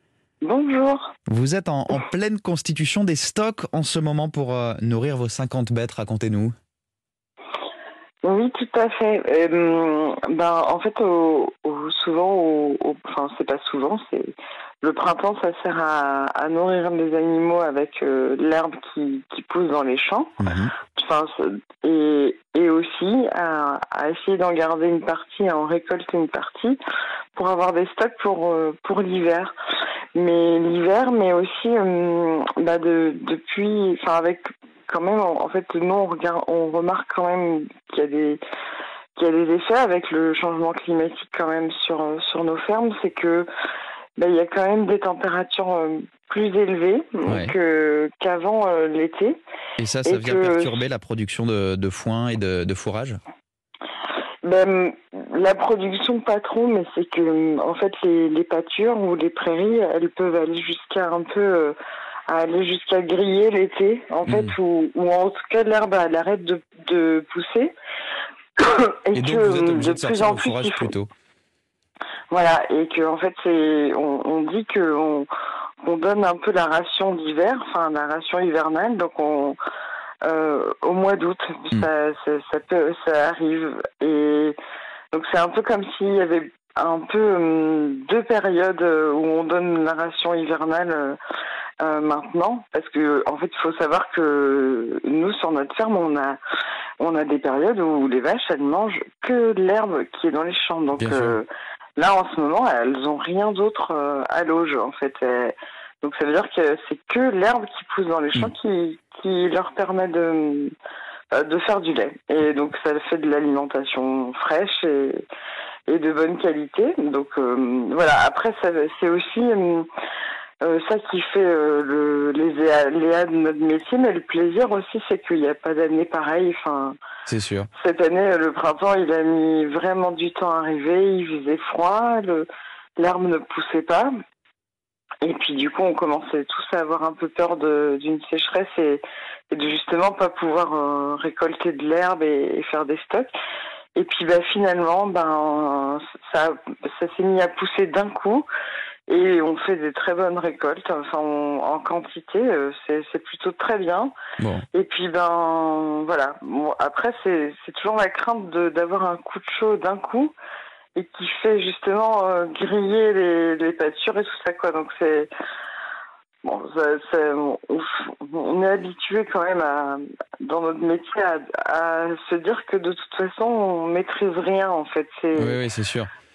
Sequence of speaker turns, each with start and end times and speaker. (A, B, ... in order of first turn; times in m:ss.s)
0:00.4-0:01.1 A
0:01.3-0:06.5 B
0:08.2-0:20.4 A
0:20.4-0:20.7 B
0:20.9-0:26.8 A
0:27.4-0:29.5 A
0:30.1-0:38.4 A
0:39.2-0:43.5 A
0:44.2-0:49.4 A
0:47.2-0:47.5 B
0:49.8-0:53.2 B
0:50.0-0:50.8 A
0:54.4-1:01.8 A
1:02.3-1:07.7 A
1:04.2-1:04.6 B
1:08.6-1:10.9 A
1:09.1-1:11.1 B
1:12.3-1:15.3 A
1:15.8-1:19.6 A
1:20.2-1:24.6 A
1:25.1-1:31.2 A
1:31.8-1:36.4 A
1:37.0-1:41.4 A
1:41.0-1:41.4 B
1:42.0-1:50.7 A
1:51.3-1:55.2 A
1:55.9-1:59.9 A
2:00.6-2:07.0 A
2:07.3-2:07.7 B
2:07.8-2:14.1 A
2:15.2-2:23.3 A
2:24.0-2:28.4 A
2:29.1-2:34.1 A
2:34.4-2:34.6 B
2:34.7-2:40.3 A
2:41.0-2:45.3 A
2:46.4-2:55.6 A
2:55.4-2:56.1 B